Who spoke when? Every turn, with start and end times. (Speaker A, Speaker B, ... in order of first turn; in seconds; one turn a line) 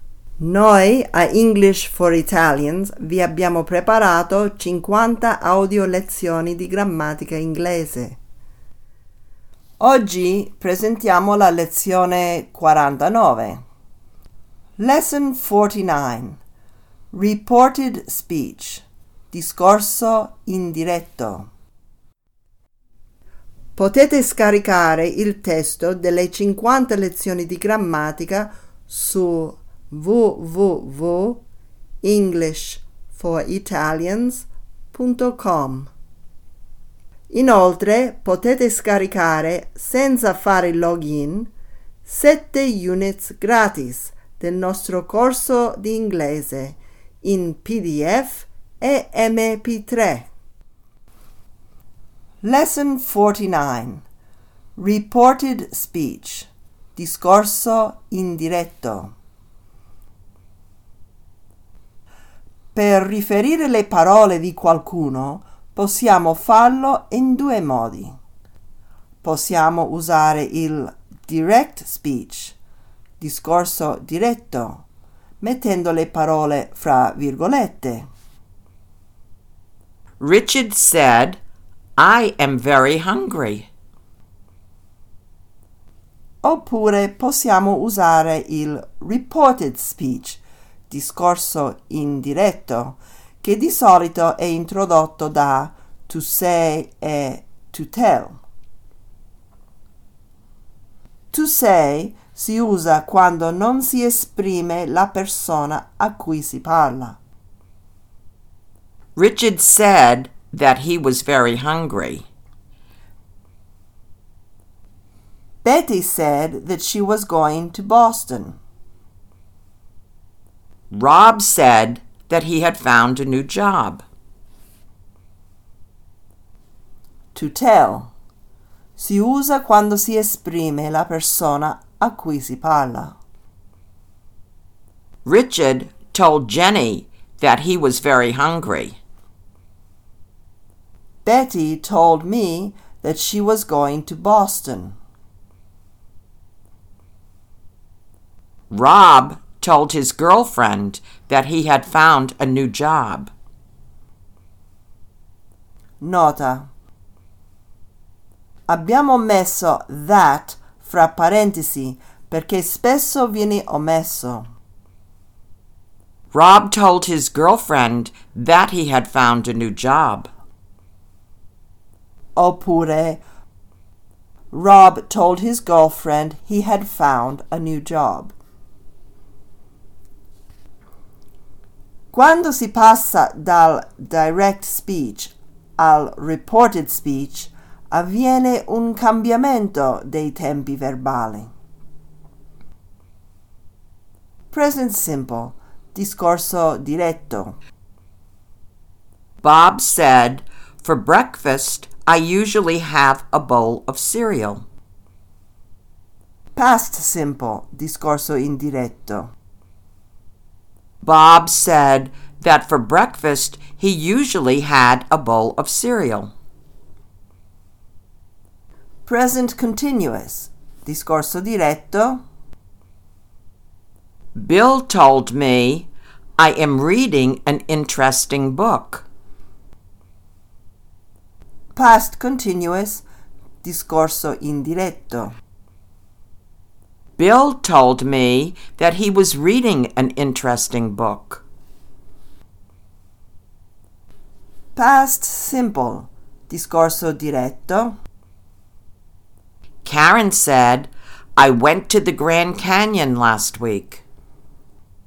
Speaker A: 0.4-8.2
Speaker A: 9.8-13.6
Speaker A: 14.8-16.4
Speaker A: 17.1-21.5
Speaker A: 23.8-31.4
Speaker A: 32.0-35.9
Speaker A: 37.3-41.5
Speaker A: 42.0-50.3
Speaker A: 52.4-54.0
Speaker A: 54.8-59.1
Speaker A: 62.7-68.1
Speaker A: 69.2-72.5
Speaker A: 73.2-74.8
Speaker A: 75.4-78.0
Speaker B: 80.2-81.4
Speaker B: 82.0-83.7
Speaker A: 86.4-98.4
Speaker A: 101.3-107.2
Speaker B: 109.2-112.2
Speaker A: 115.6-118.6
Speaker B: 120.9-124.0
Speaker A: 127.3-128.1
Speaker A: 129.0-133.1
Speaker B: 135.2-139.0
Speaker A: 141.2-144.9
Speaker B: 148.7-153.3
Speaker A: 156.0-156.7
Speaker A: 158.7-164.5
Speaker B: 166.3-170.3
Speaker A: 172.3-173.2
Speaker A: 174.5-178.3
Speaker A: 182.1-191.5
Speaker A: 194.5-197.6
Speaker B: 199.4-204.6
Speaker A: 206.5-209.3
Speaker B: 211.0-216.3
Speaker A: 219.1-222.2
Speaker B: 224.3-229.1
Speaker A: 231.7-233.0
Speaker A: 233.6-235.3
Speaker B: 237.2-241.4
Speaker A: 244.8-247.9
Speaker B: 249.8-254.0